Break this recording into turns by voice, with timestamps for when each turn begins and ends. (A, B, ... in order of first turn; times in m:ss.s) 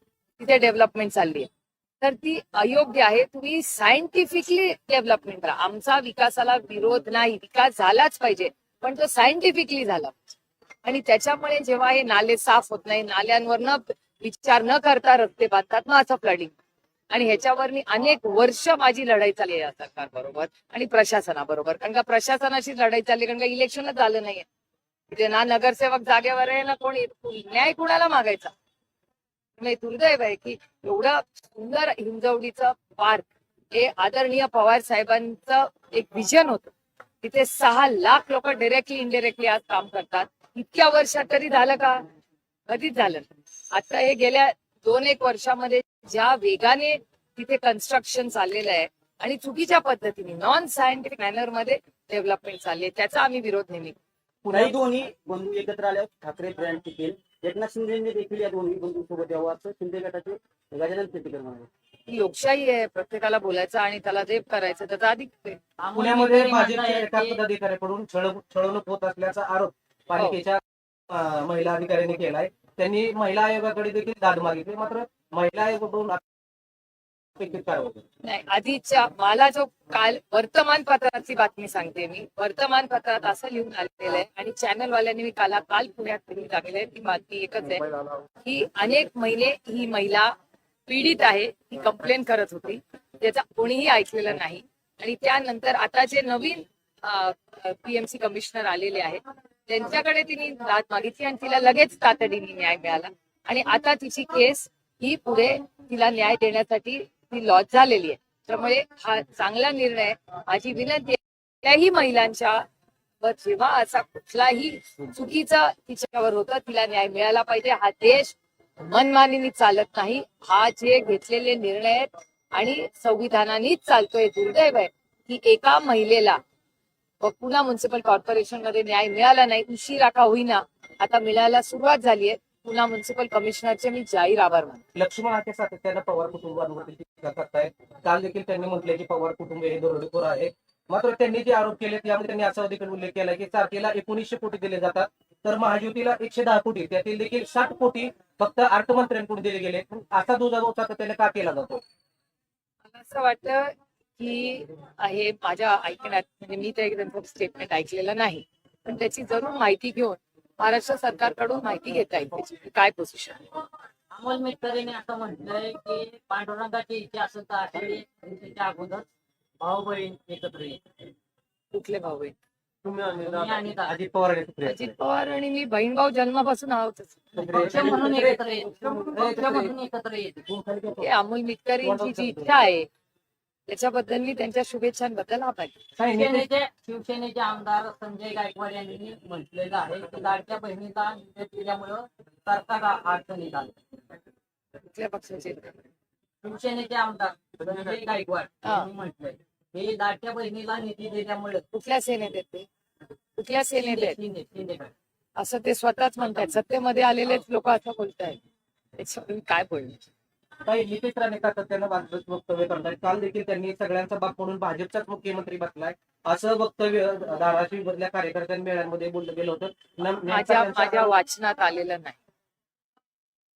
0:00.4-0:01.5 A
0:02.0-0:16.5 A
0:17.1-0:24.5 A
0:25.1-0:28.5 A
0:29.6-0:42.0 A
0:42.7-0:54.0 A
0:54.4-1:01.7 B
0:54.5-0:54.7 C
1:02.1-1:05.6 A
1:05.8-1:07.4 D
1:06.0-1:16.2 C
1:17.4-1:18.0 C
1:18.2-1:30.3 A
1:30.9-1:52.6 A
1:53.2-2:06.4 A
2:07.2-2:14.8 A
2:15.0-2:31.8 C
2:32.9-2:43.4 A
2:44.1-2:49.1 D
2:49.6-2:50.8 D
2:51.7-2:52.3 A
2:52.8-2:54.9 C
2:53.2-2:53.9 D
2:54.7-2:57.2 A
2:57.3-3:00.5 D
2:57.4-2:59.8 C
3:00.5-3:01.1 C
3:01.0-3:02.9 A
3:01.8-3:02.6 C
3:03.7-3:05.8 A
3:06.0-3:06.5 C
3:06.1-3:13.8 D
3:14.9-3:15.8 A
3:16.4-3:21.6 D
3:18.6-3:18.9 A
3:21.7-3:22.7 A
3:23.4-3:24.2 A
3:23.8-3:24.9 D
3:25.4-3:28.4 A
3:29.0-3:30.1 A
3:30.6-3:41.1 C
3:40.3-3:42.2 A